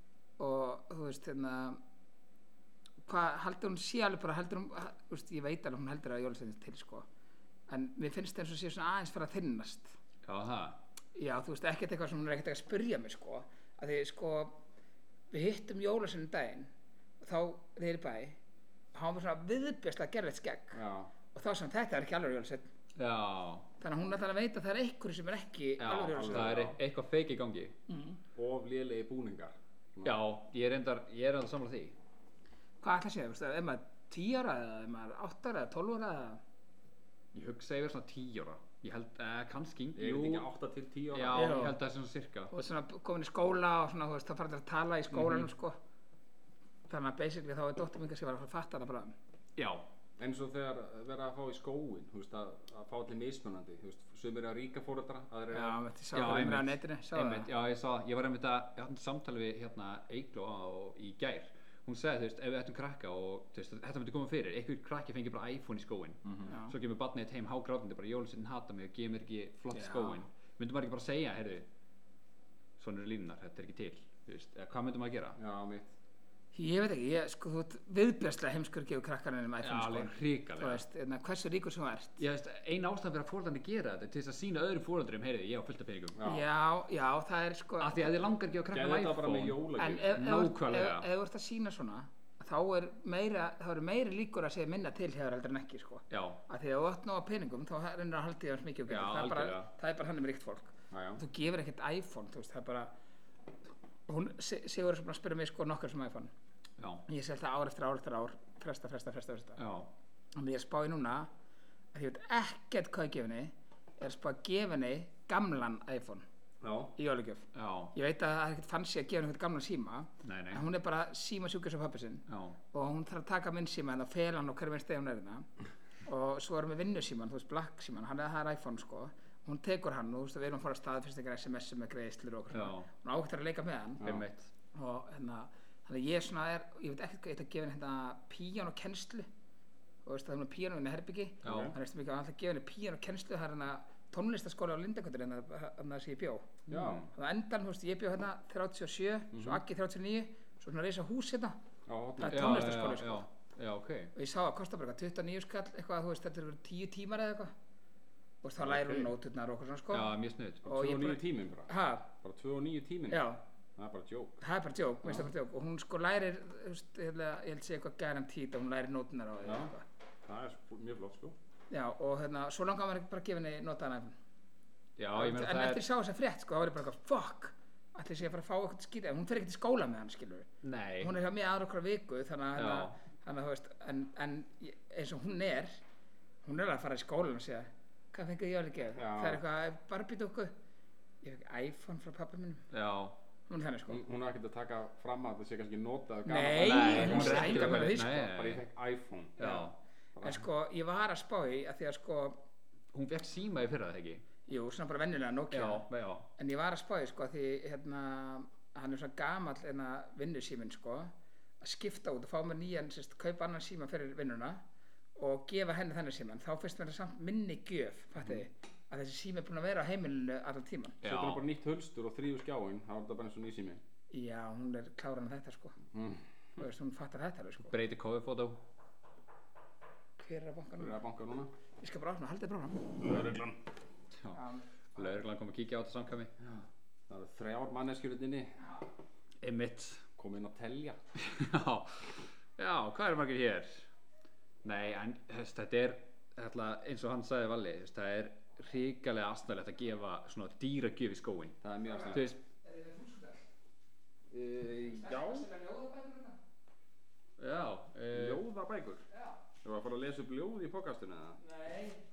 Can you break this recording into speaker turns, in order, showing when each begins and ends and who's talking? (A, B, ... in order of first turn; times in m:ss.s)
0:00.4-0:01.8 A
0:03.0-0:07.1 A
0:07.7-0:10.0 A
0:10.3-0:10.8 B
0:11.2-0:14.6 A
0:15.3-0:18.4 A
0:18.9-0:20.8 A
0:20.7-0:21.1 C
0:21.3-0:22.7 A
0:23.0-0:23.7 B
0:23.8-0:26.6 A
0:25.8-0:27.8 B
0:26.1-0:26.8 C
0:27.9-0:28.2 A
0:28.4-0:30.2 C
0:30.0-0:32.0 B
0:32.8-0:36.4 A
0:37.3-0:40.5 B
0:40.0-0:41.6 C
0:41.1-0:42.5 B
0:41.3-0:41.8 A
0:42.5-0:45.8 A
0:46.9-0:49.2 A
0:49.6-0:49.8 B
0:50.2-0:55.8 C
0:55.5-0:57.5 A
0:56.1-1:11.7 B
1:06.2-1:06.5 C
1:06.5-1:06.8 A
1:09.7-1:10.2 A
1:12.8-1:15.4 B
1:15.4-1:15.9 C
1:16.5-1:22.2 A
1:19.6-1:20.8 B
1:22.2-1:26.2 B
1:26.2-1:26.4 C
1:26.2-1:28.3 A
1:27.8-1:31.1 B
1:28.7-1:30.2 C
1:29.8-1:42.9 A
1:36.1-1:36.4 B
1:38.9-1:39.7 B
1:40.9-1:41.2 C
1:44.1-1:46.3 A
1:46.8-1:47.0 B
1:47.1-1:49.6 A
1:49.6-1:49.9 B
1:50.4-1:51.3 A
1:51.9-1:56.3 A
1:56.6-1:56.9 C
1:57.0-2:05.5 A
1:57.5-1:57.9 B
2:00.2-2:00.6 B
2:02.3-2:02.6 B
2:06.0-2:14.0 A
2:12.5-2:12.9 B
2:14.0-2:14.3 C
2:14.0-2:14.5 B
2:14.7-2:19.3 A
2:20.0-2:31.6 A
2:21.4-2:21.7 B
2:21.4-2:21.8 C
2:26.7-2:27.1 C
2:26.7-2:27.1 B
2:29.3-2:29.6 C
2:31.9-2:32.8 C
2:32.2-2:33.3 A
2:32.3-2:34.1 B
2:34.2-2:37.5 A
2:38.4-2:40.1 A
2:38.6-2:39.1 C
2:39.9-2:40.6 B
2:40.6-2:42.1 A
2:40.6-2:43.2 C
2:43.1-2:43.4 A
2:43.8-2:44.4 C
2:44.4-2:49.8 A
2:45.0-2:45.3 C
2:49.4-2:49.7 C
2:50.3-2:51.4 C
2:51.7-2:54.2 A
2:55.0-2:55.8 B
2:55.2-3:00.5 A
3:00.6-3:01.2 B
3:01.0-3:05.8 A
3:02.6-3:03.0 B
3:06.4-3:10.5 A
3:09.0-3:09.4 C
3:11.2-3:12.6 A
3:12.7-3:13.2 B
3:13.5-3:14.0 A
3:13.9-3:19.6 C
3:16.3-3:18.1 A
3:16.5-3:18.6 B
3:19.4-3:19.8 B
3:19.4-3:19.7 A
3:20.2-3:20.4 C
3:20.2-3:22.4 A
3:22.9-3:24.2 B
3:24.5-3:25.9 A
3:25.5-3:26.3 B
3:26.4-3:34.6 A
3:35.2-3:41.0 A
3:41.0-3:41.4 B
3:41.0-3:43.8 C
3:44.1-3:45.8 A
3:45.9-3:46.2 C
3:46.6-3:47.7 A
3:47.6-3:48.6 B
3:50.2-3:51.0 A
3:50.8-3:51.5 C
3:51.8-3:53.2 A
3:53.0-3:53.6 C
3:54.3-3:55.1 A
3:55.0-3:56.3 B
3:57.1-3:58.6 C
3:59.4-4:00.1 B
4:00.2-4:01.0 C
4:01.2-4:03.9 B
4:04.6-4:11.6 B
4:11.6-4:12.3 C
4:11.9-4:13.4 A
4:12.1-4:12.4 B
4:14.3-4:15.5 C
4:14.8-4:16.4 A
4:17.4-4:18.4 B
4:18.1-4:19.0 C
4:19.1-4:19.4 A
4:19.6-4:21.4 C
4:21.4-4:22.0 A